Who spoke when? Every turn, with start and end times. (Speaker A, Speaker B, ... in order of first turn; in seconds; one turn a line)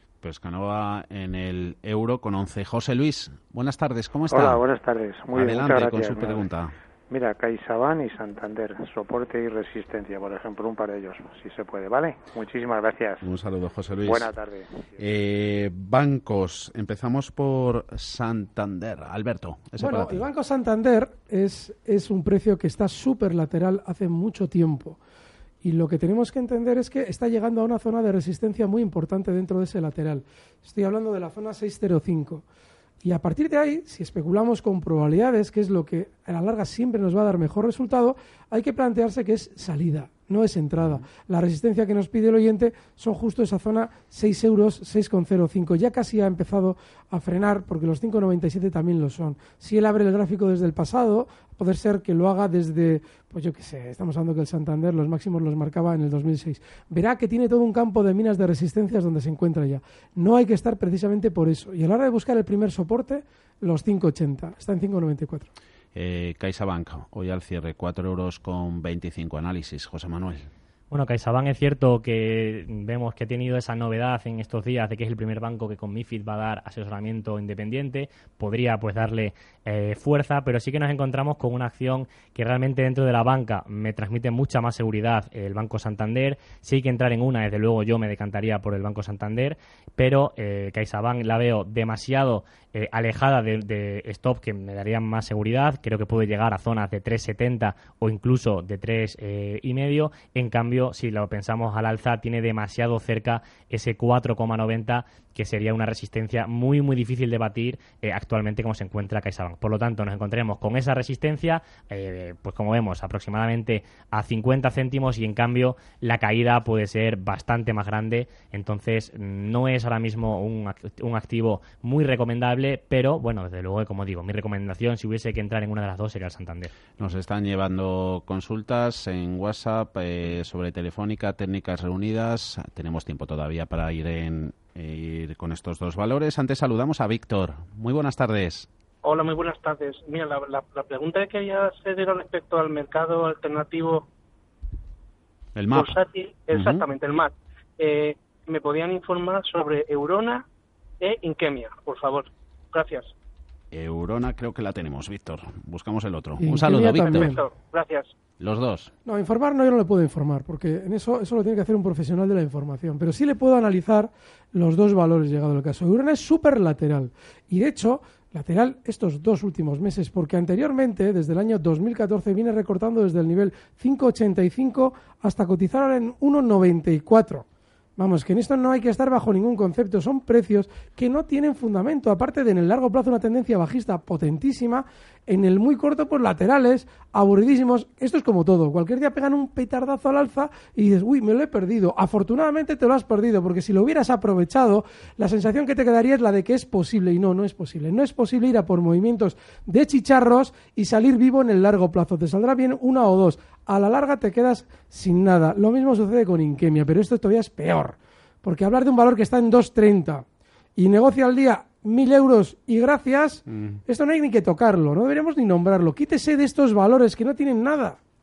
Speaker A: 0.2-4.6
Speaker B: 4.3-6.4
Speaker A: 5.3-6.7
Speaker B: 7.1-13.2
Speaker A: 13.2-14.3
Speaker B: 14.0-14.9
Speaker A: 15.0-20.2
Speaker C: 19.8-25.0
Speaker C: 25.6-32.4
Speaker C: 33.0-65.5
Speaker A: 65.9-70.5
Speaker D: 70.9-126.7
Speaker A: 127.0-138.7
Speaker E: 139.0-144.1
Speaker A: 145.6-146.9
Speaker E: 145.7-150.4
Speaker E: 151.0-153.1
Speaker A: 153.7-157.4
Speaker C: 156.4-157.4
Speaker E: 156.9-158.1
Speaker A: 158.4-158.9
Speaker C: 159.1-177.4
Speaker C: 178.0-210.2
Speaker C: 210.8-218.0